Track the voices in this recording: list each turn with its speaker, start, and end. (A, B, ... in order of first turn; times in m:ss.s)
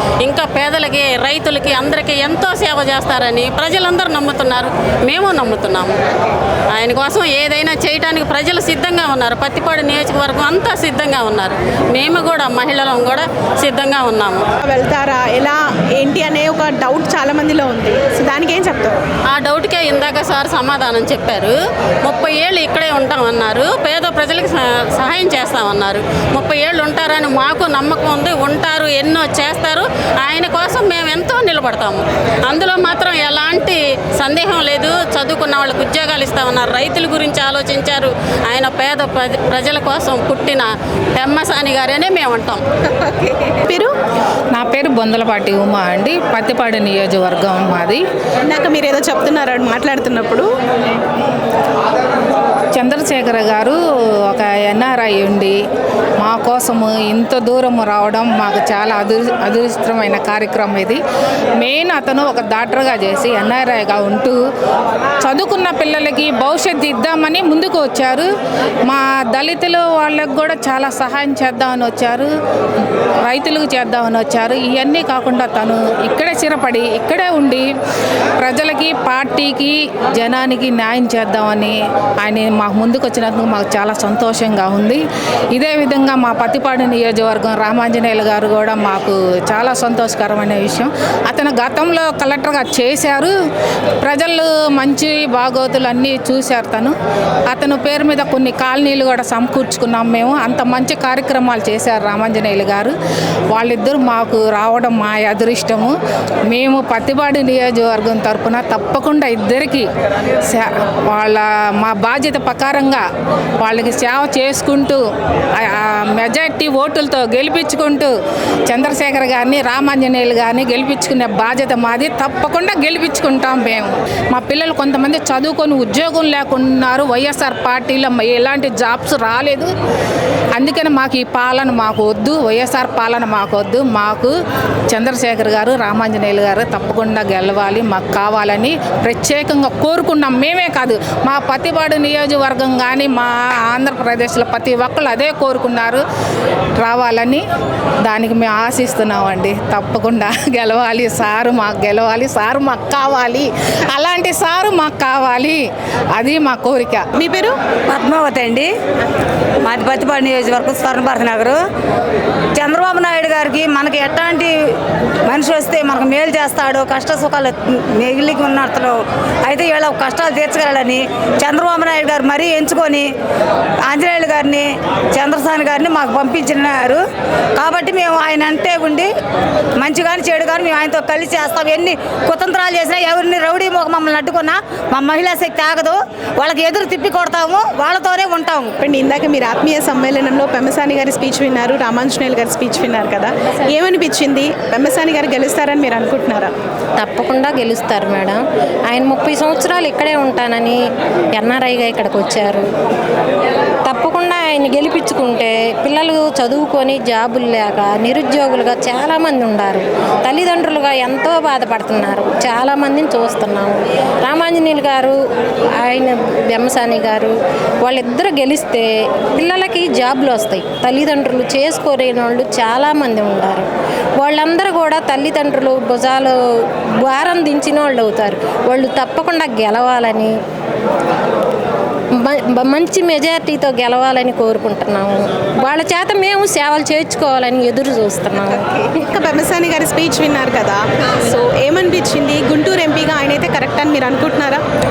0:00.2-0:05.9 A
0:06.8-0:14.4 A
0:14.6-0:19.0 B
0:19.3-0:21.5 A
0:22.0-0:42.6 A
0:43.2-0:43.9 B
0:44.5-0:48.0 C
0:48.4-0:50.5 B
0:52.7-0:55.6 C
0:56.2-1:01.0 C
1:01.6-1:04.4 C
1:05.2-1:08.3 C
1:08.9-1:12.3 C
1:13.2-1:17.7 C
1:18.4-1:33.3 C
1:34.0-1:36.9 C
1:37.5-1:42.9 C
1:43.5-1:46.0 C
1:46.5-1:49.9 C
1:50.4-1:53.0 C
1:53.6-1:55.0 C
1:55.5-1:58.1 C
1:58.6-2:09.7 C
2:10.5-2:14.3 C
2:14.9-2:26.0 C
2:26.8-2:27.4 C
2:28.0-2:37.1 C
2:37.2-2:37.6 B
2:37.9-2:38.7 D
2:39.6-2:41.6 D
2:42.5-2:44.5 D
2:45.2-2:53.1 D
2:53.8-2:57.0 D
2:57.6-2:59.1 D
2:59.8-3:08.7 D
3:08.8-3:16.5 B
3:17.0-3:18.4 E
3:18.9-3:20.8 E
3:21.4-3:22.6 E
3:23.9-3:35.2 E
3:35.8-3:37.3 E
3:37.8-3:43.7 E
3:44.2-3:46.3 E
3:47.0-3:50.3 E
3:52.2-3:58.7 E
3:58.9-4:04.6 B